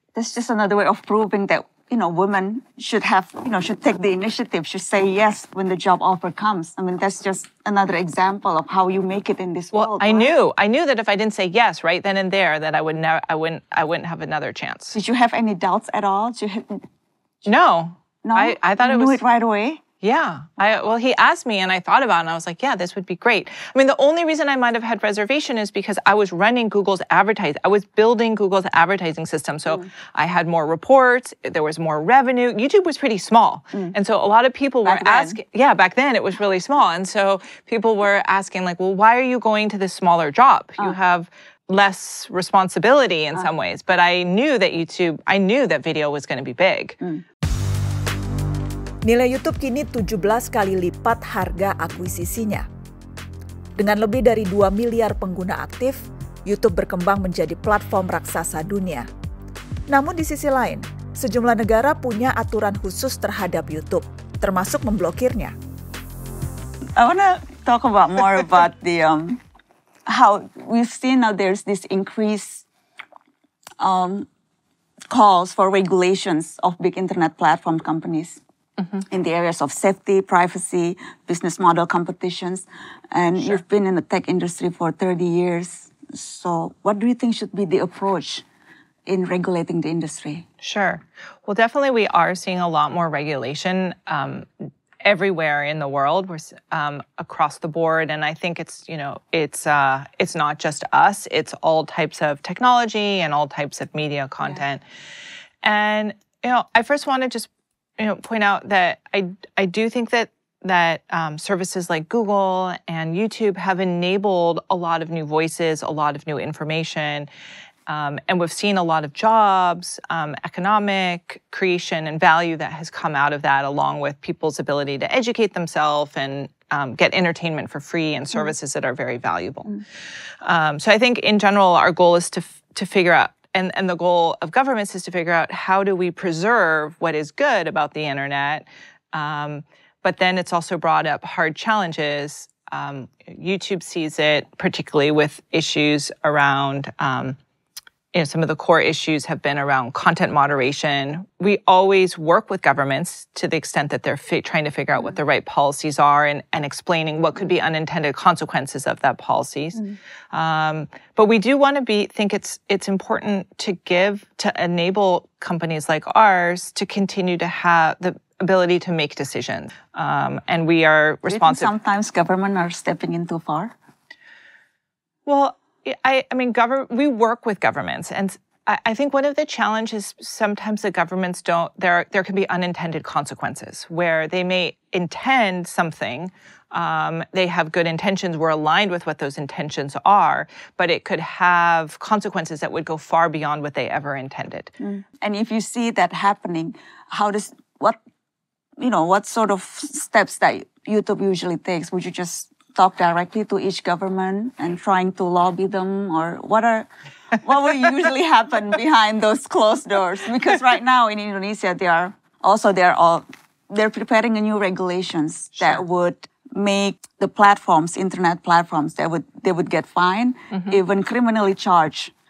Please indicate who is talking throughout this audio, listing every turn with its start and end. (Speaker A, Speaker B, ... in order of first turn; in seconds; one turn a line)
Speaker A: 0.1-10.3
Speaker B: 9.7-15.0
Speaker A: 14.9-16.8
Speaker B: 17.4-19.2
Speaker A: 18.2-19.8
Speaker B: 20.0-47.0
Speaker A: 34.8-35.4
Speaker C: 49.0-52.6
Speaker C: 53.8-59.0
Speaker C: 59.9-65.5
Speaker A: 67.0-69.4
Speaker A: 70.0-72.6
Speaker A: 73.8-74.3
Speaker A: 75.1-78.4
Speaker A: 79.1-88.4
Speaker A: 89.0-90.5
Speaker B: 90.6-104.8
Speaker B: 105.6-117.3
Speaker B: 117.9-129.8
Speaker B: 130.4-147.4
Speaker B: 148.1-171.7
Speaker A: 171.2-173.7
Speaker B: 175.2-194.7
Speaker A: 194.8-198.0
Speaker A: 198.8-206.9
Speaker A: 207.4-222.1
Speaker B: 220.5-220.8